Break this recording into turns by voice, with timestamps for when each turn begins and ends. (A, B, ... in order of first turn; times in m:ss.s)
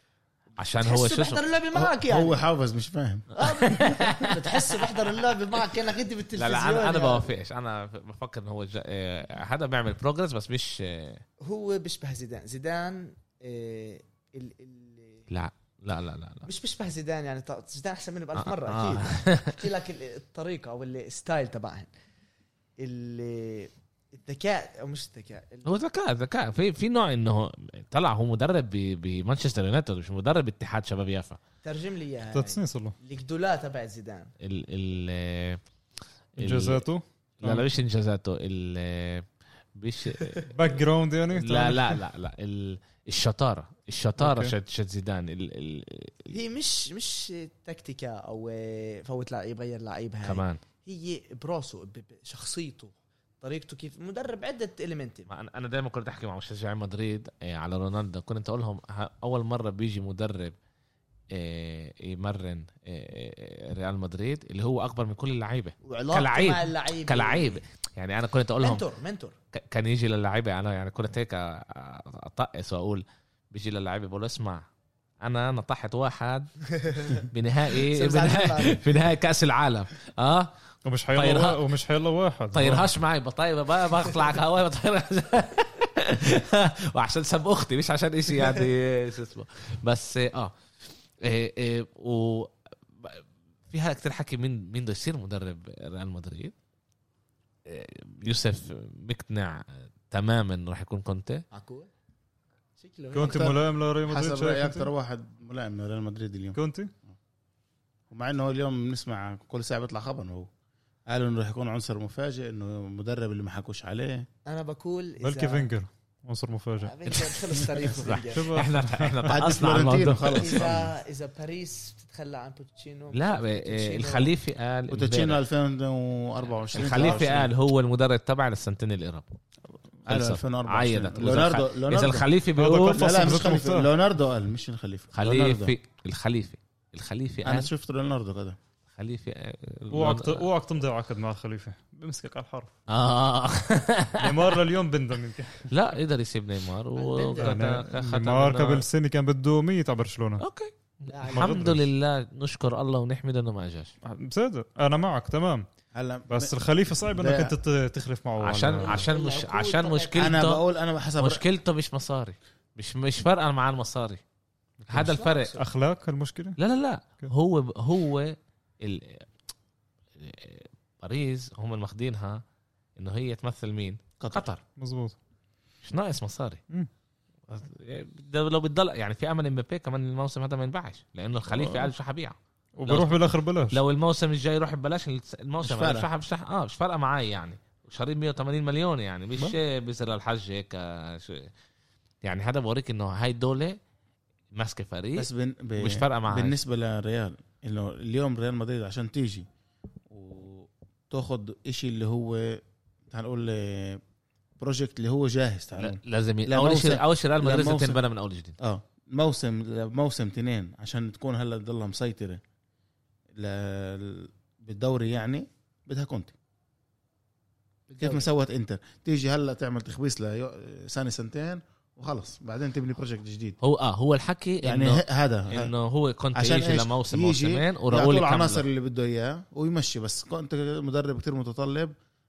0:00.6-0:01.4 A
0:00.8-0:02.4 B
0:01.8-0:03.3 C
0:03.4-0:05.6 A
0:03.4-0:07.3 B
0:06.4-0:11.2 A
0:11.4-0:15.2 B
0:15.3-0:16.5 A
0:16.5-0:21.9 B
0:18.4-0:19.6 A
0:22.8-0:25.8 B
0:25.6-0:31.4 A
0:31.6-0:34.3 B
0:32.3-0:33.0 D
0:34.4-0:35.6 A
0:36.4-0:36.9 A
0:36.4-0:37.7 D
0:37.4-0:40.7 A
0:40.5-0:42.0 D
0:41.3-0:46.3 A
0:44.2-0:44.5 D
0:46.3-0:55.3 B
0:50.2-0:50.6 A
0:55.3-1:00.6 A
1:01.3-1:08.8 A
1:05.8-1:07.6 B
1:08.6-1:09.4 B
1:09.5-1:14.6 A
1:15.2-1:20.5 A
1:16.8-1:17.3 B
1:17.8-1:18.8 B
1:20.8-1:22.9 D
1:21.1-1:21.6 A
1:22.5-1:30.5 A
1:31.2-1:36.5 A
1:37.7-1:41.4 A
1:41.5-1:41.9 B
1:42.8-1:43.5 B
1:43.1-1:44.9 D
1:43.2-1:46.6 C
1:46.6-1:46.9 D
1:48.1-1:50.5 C
1:51.1-1:54.3 C
1:54.5-1:55.7 B
1:55.2-1:57.2 D
1:56.8-1:58.6 B
1:57.8-2:00.7 A
1:58.3-1:59.4 D
1:59.3-2:00.9 C
2:00.4-2:04.3 B
2:03.1-2:05.4 A
2:04.9-2:07.5 C
2:06.7-2:09.3 A
2:10.0-2:12.3 C
2:10.1-2:13.1 A
2:12.6-2:13.9 D
2:12.9-2:15.8 C
2:15.1-2:17.7 A
2:17.4-2:18.6 C
2:19.0-2:20.5 A
2:19.9-2:22.7 D
2:22.9-2:24.6 A
2:24.2-2:25.7 D
2:25.7-2:28.9 A
2:27.0-2:27.6 B
2:27.4-2:30.4 D
2:30.4-2:33.9 A
2:31.1-2:31.7 B
2:31.3-2:31.8 D
2:34.0-2:35.7 D
2:35.9-2:37.6 C
2:36.3-2:39.1 D
2:38.4-2:40.6 A
2:38.8-2:40.4 B
2:40.2-2:41.4 C
2:41.2-2:44.2 A
2:44.8-2:46.6 D
2:44.9-2:45.6 A
2:45.0-2:45.6 B
2:46.6-2:49.3 A
2:50.2-2:52.4 A
2:53.0-2:54.6 A
2:54.2-2:54.5 C
2:54.8-2:55.2 D
2:55.8-2:56.6 A
2:57.5-3:11.5 A
3:01.5-3:01.9 C
3:02.8-3:03.8 D
3:05.6-3:06.1 C
3:12.2-3:13.8 A
3:14.5-3:16.6 A
3:15.2-3:19.5 C
3:20.1-3:24.0 C
3:24.6-3:28.0 C
3:25.8-3:28.6 A
3:28.6-3:32.4 C
3:33.4-3:36.3 C
3:37.9-3:38.3 B
3:38.0-3:43.6 C
3:43.6-3:48.6 A
3:44.6-3:45.7 C
3:46.4-3:51.9 C